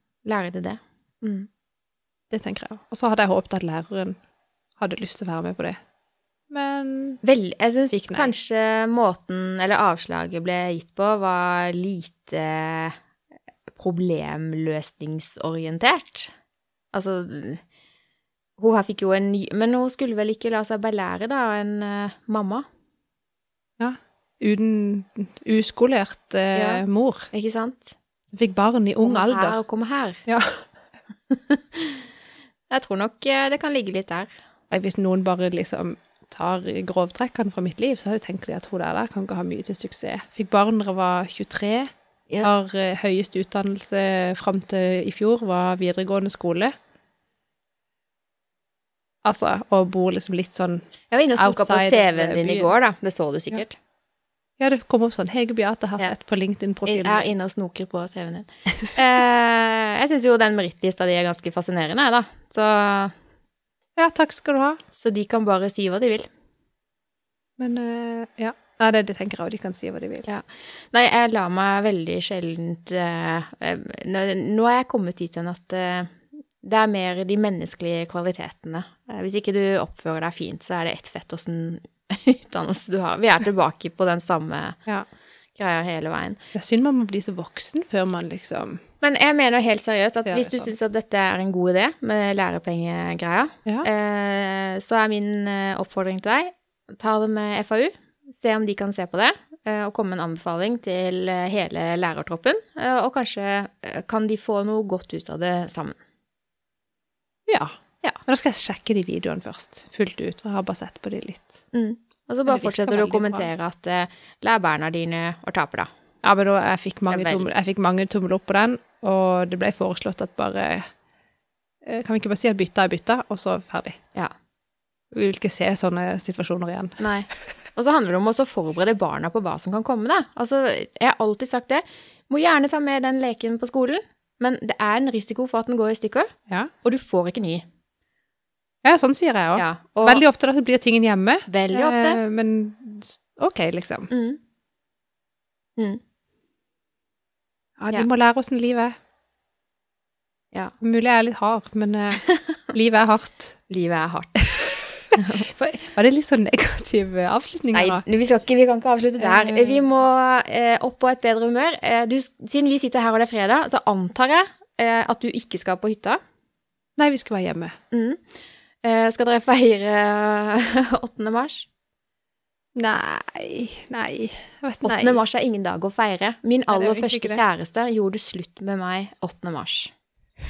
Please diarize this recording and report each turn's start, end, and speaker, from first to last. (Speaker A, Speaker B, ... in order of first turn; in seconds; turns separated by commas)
Speaker A: 0.2-1.5, Speaker B: 2.3-4.2, Speaker B: 4.8-5.8, Speaker B: 6.5-7.2, Speaker A: 7.2-13.0, Speaker B: 7.9-8.3, Speaker A: 13.8-16.3, Speaker A: 16.9-17.6, Speaker A: 18.6-22.6, Speaker B: 23.8-27.3, Speaker A: 26.5-28.0, Speaker B: 28.3-29.6, Speaker A: 29.0-30.2, Speaker B: 30.3-30.6, Speaker A: 31.3-32.0, Speaker A: 32.7-34.3, Speaker B: 34.7-41.9, Speaker B: 42.4-46.7, Speaker B: 49.2-52.7, Speaker A: 51.1-53.8, Speaker B: 54.6-57.3, Speaker A: 56.9-63.1, Speaker B: 64.0-64.8, Speaker A: 64.9-66.3, Speaker B: 67.6-70.3, Speaker A: 70.3-84.8, Speaker A: 85.6-86.4, Speaker B: 86.5-88.8, Speaker A: 89.0-106.0, Speaker B: 90.2-90.7, Speaker B: 107.5-111.6, Speaker A: 111.7-115.9, Speaker B: 112.5-113.5, Speaker B: 116.2-120.8, Speaker A: 117.1-117.5, Speaker B: 121.8-124.0, Speaker B: 125.1-127.0, Speaker A: 127.0-136.3, Speaker A: 136.8-137.7, Speaker B: 138.8-144.1, Speaker A: 139.6-140.2, Speaker A: 141.5-142.2, Speaker A: 144.1-144.4, Speaker B: 147.8-148.9, Speaker B: 150.8-153.6, Speaker A: 152.2-152.6, Speaker A: 153.7-154.4, Speaker A: 155.1-155.5, Speaker B: 155.4-158.0, Speaker A: 157.7-166.2, Speaker B: 159.2-159.8, Speaker B: 167.0-167.8, Speaker A: 167.9-168.2, Speaker A: 168.8-171.7, Speaker B: 172.8-175.2, Speaker A: 174.8-179.9, Speaker B: 176.7-177.4